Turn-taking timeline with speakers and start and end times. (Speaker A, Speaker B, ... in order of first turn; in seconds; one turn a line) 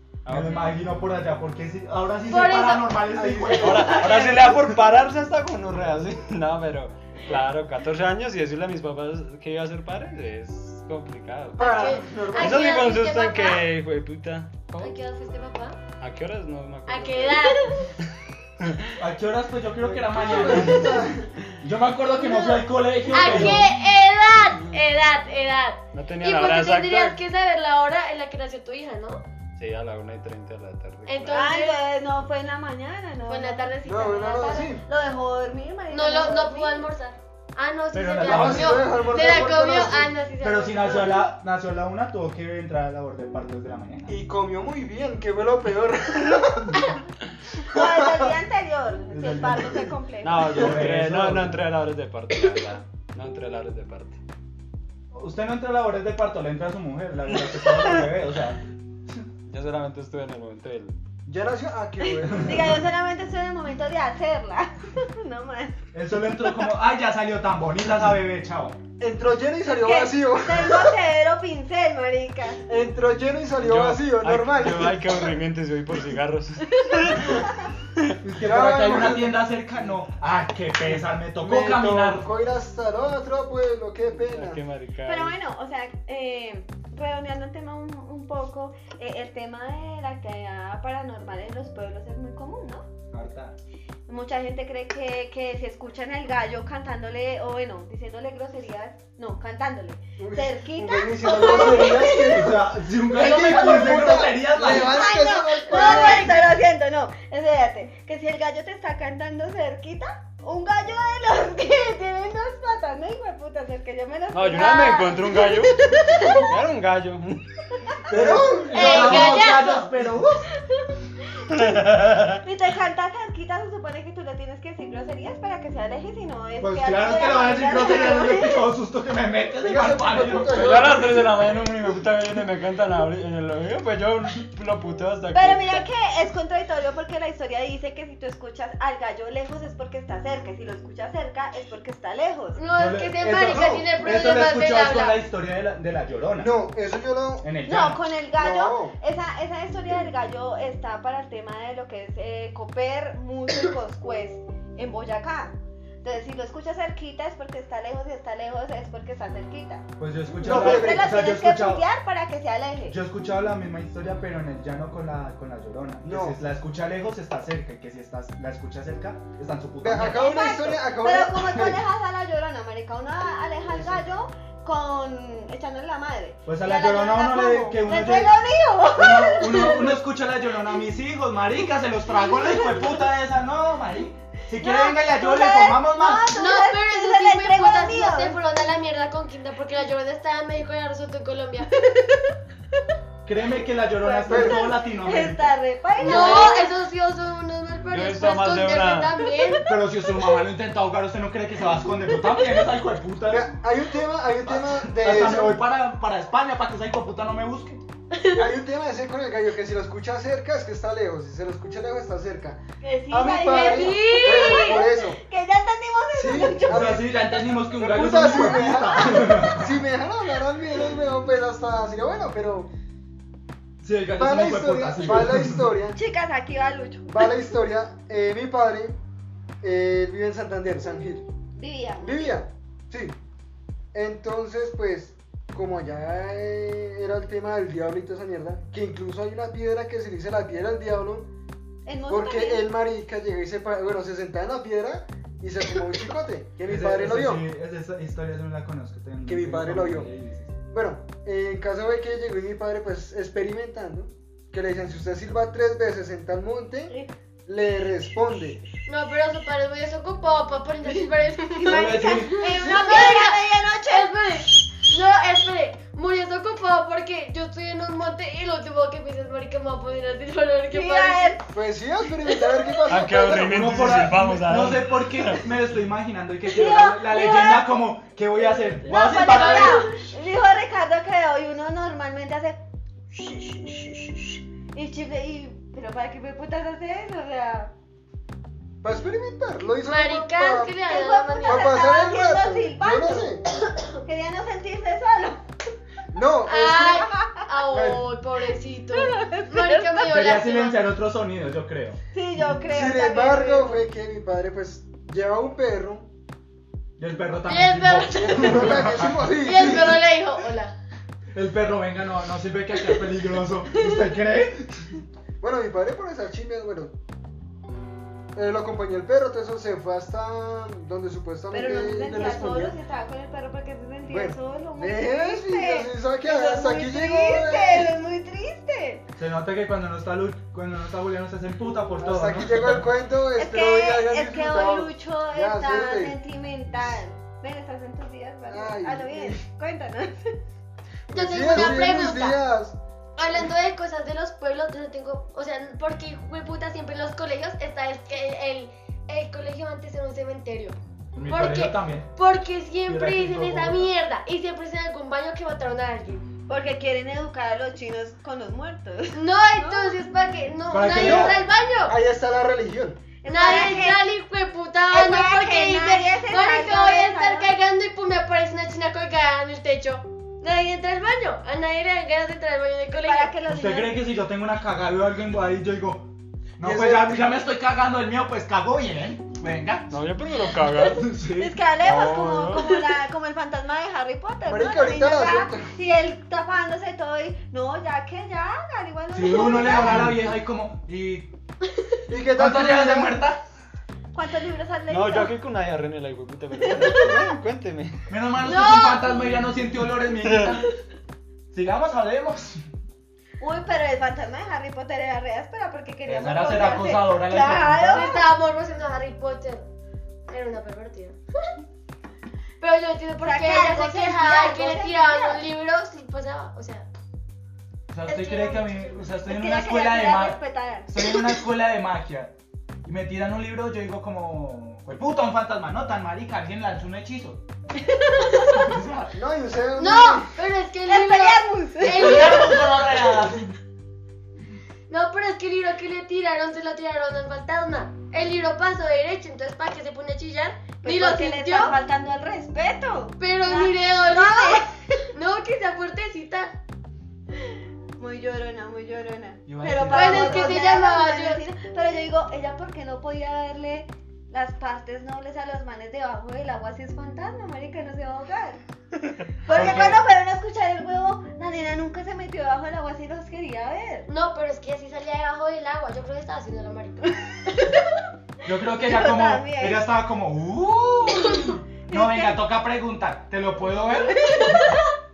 Speaker A: 0.3-0.8
Speaker B: 0.3-4.8
Speaker C: 2.3-3.0
Speaker D: 3.1-4.3
Speaker A: 3.6-14.9
Speaker D: 11.6-12.7
Speaker C: 11.6-13.6
Speaker C: 14.8-15.8
Speaker A: 16.0-19.0
Speaker C: 16.9-17.9
Speaker B: 19.0-23.7
Speaker D: 19.8-21.3
Speaker C: 22.3-29.2
Speaker A: 25.9-27.2
Speaker A: 29.6-31.4
Speaker C: 31.1-31.8
Speaker E: 31.3-36.9
Speaker C: 33.3-34.7
Speaker D: 33.8-34.8
Speaker C: 35.9-41.3
Speaker B: 37.9-39.0
Speaker D: 38.2-40.1
Speaker B: 40.4-44.1
Speaker D: 44.1-46.9
Speaker E: 47.7-50.6
Speaker D: 47.7-48.3
Speaker A: 49.2-54.2
Speaker B: 50.4-51.6
Speaker B: 55.1-58.6
Speaker A: 59.5-60.9
Speaker D: 61.3-62.8
Speaker E: 62.0-65.8
Speaker B: 65.9-68.8
Speaker D: 69.0-70.9
Speaker E: 69.7-72.6
Speaker D: 72.7-75.3
Speaker A: 73.6-78.2
Speaker E: 76.8-77.2
Speaker B: 78.2-82.2
Speaker D: 78.3-79.4
Speaker D: 81.4-84.6
Speaker A: 84.1-85.4
Speaker E: 85.1-92.9
Speaker B: 93.1-93.6
Speaker E: 94.1-102.5
Speaker D: 100.2-106.5
Speaker B: 102.1-105.0
Speaker E: 103.2-116.5
Speaker C: 105.7-106.4
Speaker A: 114.3-117.4
Speaker D: 118.1-119.4
Speaker B: 118.1-120.5
Speaker C: 118.7-119.9
Speaker A: 121.5-122.4
Speaker E: 122.4-128.7
Speaker B: 126.6-130.8
Speaker D: 129.6-131.4
Speaker A: 130.4-135.8
Speaker E: 135.3-142.6
Speaker C: 142.6-145.2
Speaker B: 142.8-146.6
Speaker D: 143.5-143.8
Speaker D: 146.4-147.5
Speaker B: 147.4-148.0
Speaker E: 147.7-159.9
Speaker D: 148.4-148.9
Speaker B: 160.0-161.8
Speaker D: 160.4-161.1
Speaker E: 160.4-163.0
Speaker B: 162.9-170.3
Speaker D: 166.1-166.4
Speaker D: 169.8-171.8
Speaker E: 169.9-180.0
Speaker D: 173.7-174.0
Speaker B: 176.5-178.4
Speaker B: 178.9-186.3
Speaker E: 184.6-188.4
Speaker C: 186.3-191.8
Speaker B: 193.2-196.5
Speaker E: 193.9-196.7
Speaker D: 194.3-194.6
Speaker C: 196.0-199.6
Speaker A: 197.9-199.1
Speaker B: 199.6-203.5
Speaker D: 203.3-205.6
Speaker B: 204.4-207.8
Speaker C: 208.1-208.4
Speaker D: 208.3-212.6
Speaker E: 212.8-217.0
Speaker D: 213.1-215.2
Speaker C: 213.4-214.8
Speaker D: 216.2-217.1
Speaker B: 216.7-219.7
Speaker D: 217.8-222.7
Speaker E: 218.1-219.5
Speaker B: 223.8-225.7
Speaker D: 224.2-226.0
Speaker E: 225.9-227.1
Speaker D: 227.1-229.0
Speaker D: 229.6-231.3
Speaker E: 231.6-232.4
Speaker D: 232.0-233.1
Speaker D: 233.9-241.3
Speaker E: 241.9-242.7
Speaker D: 242.1-247.5
Speaker B: 246.6-250.5
Speaker D: 249.3-250.1
Speaker D: 250.7-256.9
Speaker D: 257.5-258.6
Speaker C: 258.9-271.4
Speaker E: 261.6-264.1
Speaker B: 261.7-262.5
Speaker E: 270.7-271.5
Speaker D: 271.5-274.1
Speaker A: 272.9-275.5
Speaker B: 273.4-279.9
Speaker E: 276.5-277.7
Speaker E: 278.8-282.6
Speaker C: 279.1-280.0
Speaker E: 283.1-287.7
Speaker D: 288.8-290.8
Speaker C: 289.8-291.9
Speaker E: 290.8-295.4
Speaker D: 291.5-293.4
Speaker D: 296.1-297.1
Speaker C: 296.5-300.8
Speaker E: 297.1-297.5
Speaker D: 297.7-298.1
Speaker E: 298.9-300.0
Speaker B: 300.0-302.0
Speaker E: 302.1-303.9
Speaker D: 302.7-306.1
Speaker B: 307.0-309.2
Speaker C: 307.4-308.9
Speaker D: 308.1-310.0
Speaker C: 309.4-310.8
Speaker B: 311.3-315.0
Speaker D: 315.4-316.9
Speaker D: 318.3-322.8
Speaker E: 321.5-329.0
Speaker D: 324.1-327.9
Speaker B: 329.2-332.8
Speaker D: 332.0-336.1
Speaker E: 333.4-340.4
Speaker D: 338.5-339.4
Speaker D: 341.1-342.8
Speaker C: 341.1-342.4
Speaker C: 343.2-350.8
Speaker B: 351.1-352.1
Speaker C: 351.3-356.3
Speaker B: 352.9-353.9
Speaker E: 356.5-360.0
Speaker C: 359.1-362.0
Speaker B: 360.7-361.4
Speaker D: 361.0-363.0
Speaker E: 363.2-364.0
Speaker C: 363.3-373.3
Speaker E: 364.9-367.5
Speaker E: 373.0-374.0
Speaker B: 373.5-379.9
Speaker D: 376.6-377.3
Speaker A: 379.9-381.1
Speaker B: 380.8-381.6
Speaker E: 381.3-390.1
Speaker A: 381.8-382.8
Speaker D: 384.5-385.7
Speaker B: 389.1-391.3
Speaker D: 389.7-390.1
Speaker D: 392.1-393.2
Speaker B: 392.3-393.4
Speaker E: 394.1-395.3
Speaker A: 394.9-398.1
Speaker E: 396.6-397.1
Speaker B: 398.1-400.7
Speaker C: 398.4-399.1
Speaker A: 400.2-400.5
Speaker B: 401.5-402.7
Speaker E: 403.4-408.2
Speaker B: 406.1-408.1
Speaker C: 407.9-409.7
Speaker C: 410.3-411.5
Speaker C: 412.6-416.9
Speaker E: 413.2-415.4
Speaker B: 417.9-427.4
Speaker C: 418.1-419.1
Speaker E: 419.3-421.1
Speaker E: 428.1-428.6
Speaker B: 428.5-429.1
Speaker D: 429.1-430.3
Speaker C: 429.8-432.7
Speaker E: 430.9-432.6
Speaker B: 431.9-433.6
Speaker C: 434.9-441.8
Speaker E: 440.8-445.1
Speaker C: 443.2-446.5
Speaker E: 448.0-458.6
Speaker B: 449.5-450.6
Speaker C: 449.9-451.4
Speaker A: 459.0-459.9
Speaker E: 459.4-464.1
Speaker C: 459.5-459.9
Speaker B: 459.5-459.9
Speaker C: 464.1-467.9
Speaker B: 468.4-474.6
Speaker E: 468.8-469.8
Speaker E: 471.9-472.4
Speaker E: 474.2-474.8